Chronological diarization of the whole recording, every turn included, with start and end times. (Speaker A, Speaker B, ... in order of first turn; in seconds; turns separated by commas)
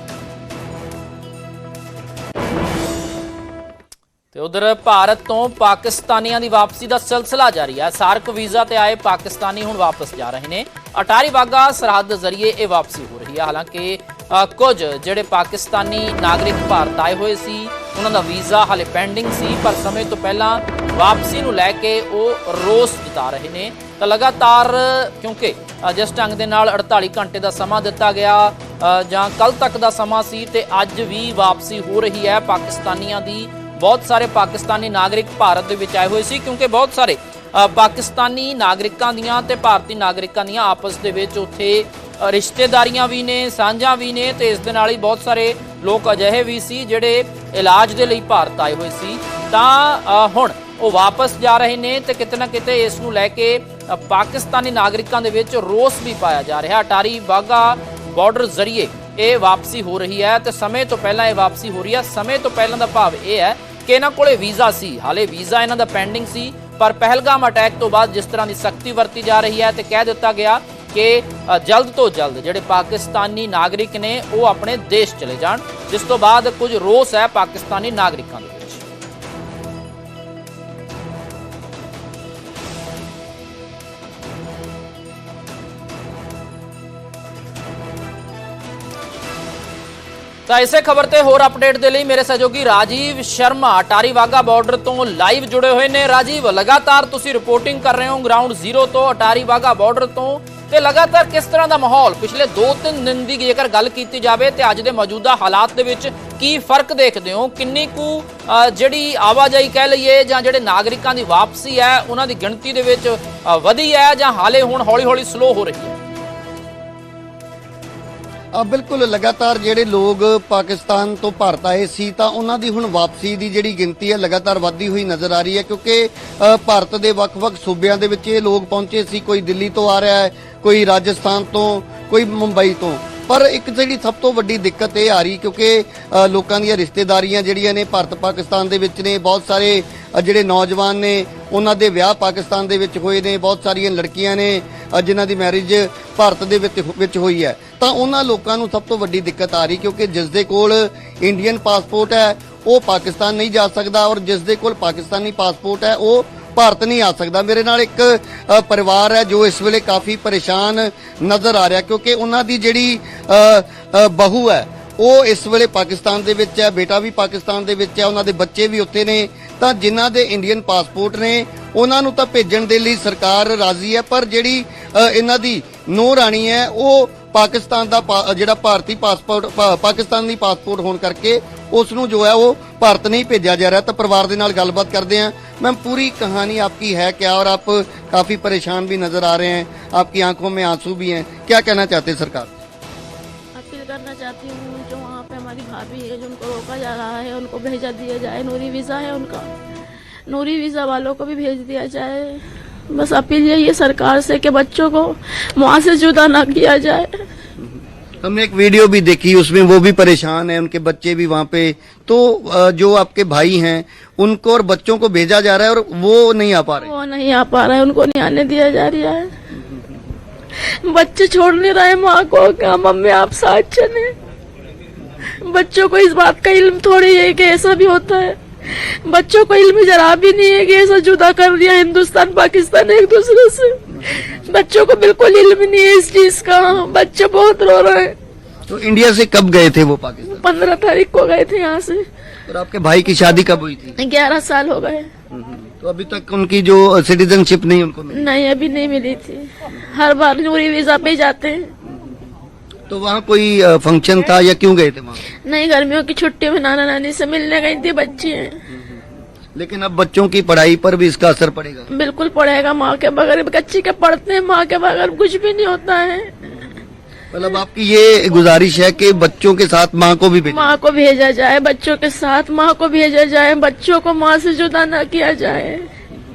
Speaker A: 4.3-78.8, Speaker A: 90.5-116.0, Speaker B: 118.5-192.6, Speaker C: 193.6-199.5, Speaker C: 200.3-207.3, Speaker B: 207.6-216.9, Speaker C: 216.8-219.3, Speaker C: 220.6-224.1, Speaker C: 225.4-238.2, Speaker B: 238.7-240.4, Speaker C: 240.3-242.1, Speaker B: 242.5-244.0, Speaker C: 244.0-245.1, Speaker B: 245.3-248.3, Speaker C: 248.1-251.7, Speaker B: 251.9-252.2, Speaker B: 252.9-255.3, Speaker C: 255.4-258.6, Speaker B: 258.7-261.9, Speaker C: 261.9-266.6, Speaker B: 267.3-270.8, Speaker C: 270.5-275.9